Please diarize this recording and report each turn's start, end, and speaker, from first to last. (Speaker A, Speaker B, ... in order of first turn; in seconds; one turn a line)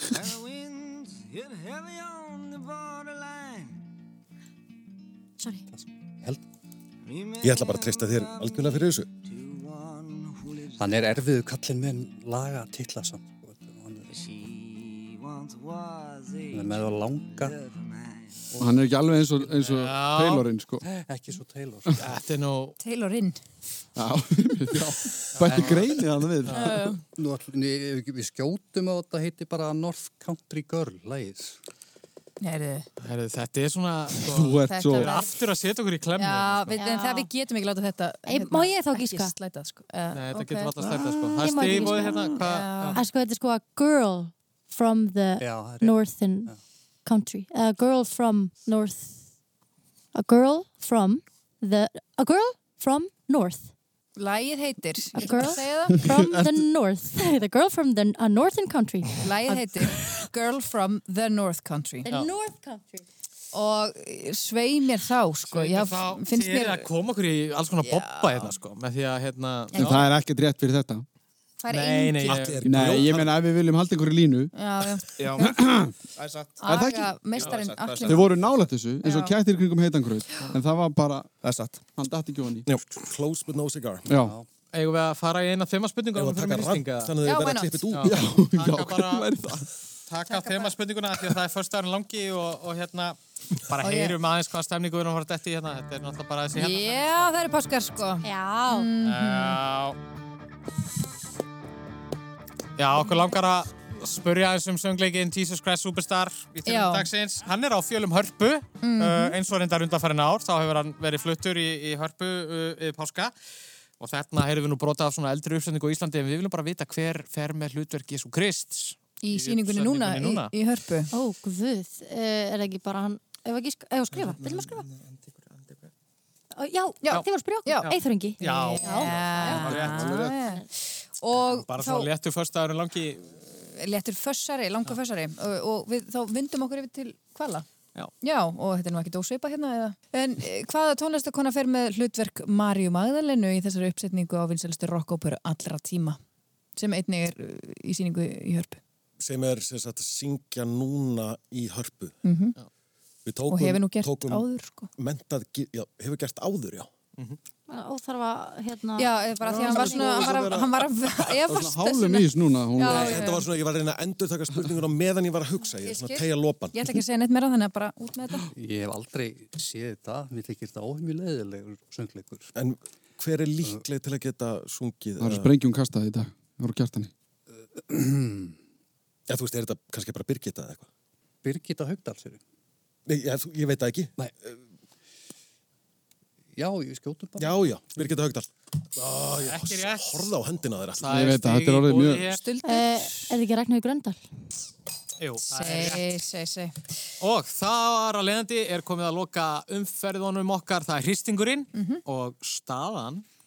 Speaker A: 0.1-3.8
Speaker B: 5.4-5.6
Speaker C: 5.7-6.4
Speaker A: 7.0-11.1
Speaker D: 7.4-9.1
Speaker C: 10.8-14.1
Speaker A: 14.1-18.3
Speaker C: 16.5-17.6
Speaker E: 18.6-20.8
Speaker F: 19.6-20.5
Speaker C: 20.8-22.1
Speaker F: 22.0-22.8
Speaker G: 22.8-23.4
Speaker E: 23.9-26.9
Speaker F: 25.3-25.8
Speaker F: 26.5-26.7
Speaker G: 26.5-27.0
Speaker C: 27.1-31.6
Speaker G: 32.4-32.9
Speaker F: 33.0-36.8
Speaker E: 34.3-35.1
Speaker G: 34.7-35.2
Speaker G: 36.2-40.7
Speaker B: 36.7-37.3
Speaker B: 38.2-39.3
Speaker F: 40.1-43.0
Speaker B: 40.9-46.5
Speaker G: 41.9-43.0
Speaker C: 45.4-46.6
Speaker B: 47.0-49.2
Speaker B: 50.1-53.7
Speaker G: 54.2-56.0
Speaker B: 55.1-59.6
Speaker G: 59.2-62.1
Speaker B: 62.0-63.0
Speaker G: 63.5-66.9
Speaker F: 65.5-70.0
Speaker G: 67.8-68.5
Speaker G: 69.7-70.0
Speaker E: 69.8-71.0
Speaker G: 71.6-72.4
Speaker F: 71.7-72.6
Speaker D: 72.2-73.3
Speaker E: 72.6-75.9
Speaker G: 74.5-75.5
Speaker H: 75.2-75.6
Speaker H: 76.1-76.8
Speaker G: 76.6-78.3
Speaker E: 76.6-77.2
Speaker H: 77.3-78.7
Speaker E: 78.0-81.3
Speaker G: 79.0-79.3
Speaker H: 81.4-81.9
Speaker E: 81.9-82.7
Speaker D: 82.9-84.1
Speaker E: 84.1-84.3
Speaker C: 84.2-84.5
Speaker F: 84.7-87.1
Speaker D: 86.1-88.3
Speaker G: 87.2-87.8
Speaker F: 87.9-89.3
Speaker E: 88.0-89.7
Speaker F: 90.1-97.3
Speaker G: 90.3-90.7
Speaker G: 93.8-94.2
Speaker G: 96.5-99.6
Speaker B: 98.2-98.9
Speaker F: 99.0-100.0
Speaker F: 102.8-113.3
Speaker G: 106.7-107.1
Speaker G: 108.8-109.4
Speaker F: 114.0-120.5
Speaker G: 119.2-121.1
Speaker B: 121.1-124.8
Speaker H: 124.2-125.9
Speaker B: 126.5-130.6
Speaker G: 127.0-132.1
Speaker F: 127.8-130.2
Speaker F: 131.4-133.3
Speaker G: 133.6-137.7
Speaker G: 138.2-146.2
Speaker G: 146.8-148.8
Speaker D: 149.2-152.2
Speaker G: 152.2-152.6
Speaker D: 153.2-156.9
Speaker G: 153.5-154.9
Speaker B: 157.7-160.2
Speaker G: 159.0-163.4
Speaker H: 159.6-160.4
Speaker D: 159.6-160.7
Speaker E: 161.5-163.4
Speaker D: 162.8-166.8
Speaker G: 165.8-168.5
Speaker C: 168.5-172.5
Speaker D: 172.6-175.5
Speaker E: 175.2-177.1
Speaker C: 177.7-178.6
Speaker D: 179.3-180.9
Speaker C: 181.4-182.4
Speaker D: 183.1-184.6
Speaker C: 186.5-188.1
Speaker D: 187.4-191.2
Speaker F: 189.4-190.3
Speaker F: 191.0-192.4
Speaker E: 191.1-192.3
Speaker G: 192.3-193.3
Speaker B: 192.6-194.2
Speaker F: 195.2-196.0
Speaker G: 195.5-196.8
Speaker F: 197.2-203.2
Speaker G: 201.7-202.0